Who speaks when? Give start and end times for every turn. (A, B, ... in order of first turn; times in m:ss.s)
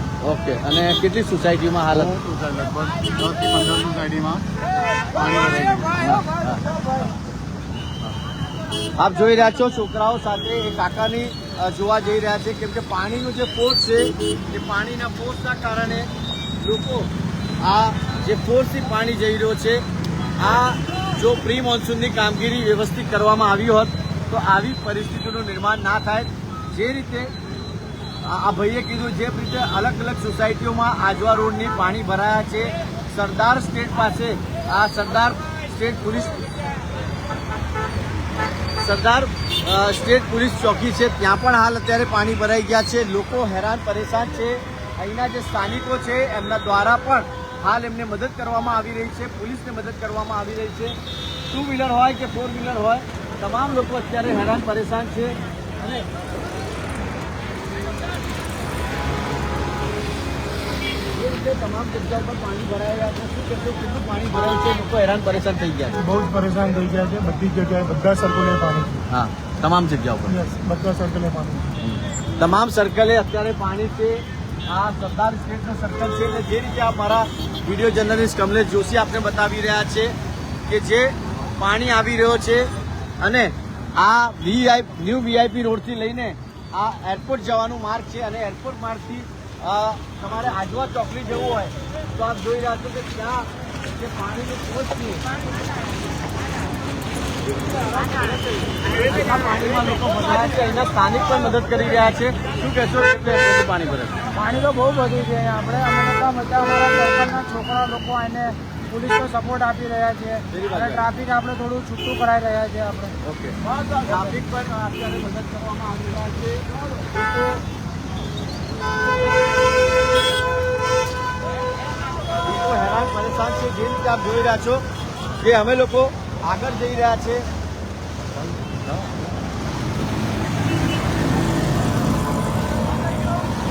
0:00.2-0:02.1 A
0:01.9-0:04.5 B
0:05.1-0:06.0 B
0:06.0-0:06.6 A
0:09.0-0:19.8 A
0:20.4-0:27.3 A
0:28.2-0:36.5 A
0:38.8-0:51.0 A
0:51.5-0:56.1 A
1:01.1-1:06.1 A
1:06.0-1:09.0 C
1:09.1-1:10.5 A
1:10.5-1:11.7 C
1:11.8-1:20.1 A
1:20.7-1:22.7 A
1:23.2-1:35.2 A
1:39.1-1:44.2 A
1:44.4-1:53.2 C
1:50.5-1:51.1 A
1:53.2-1:57.5 A
2:02.4-2:04.8 A
2:05.4-2:07.5 A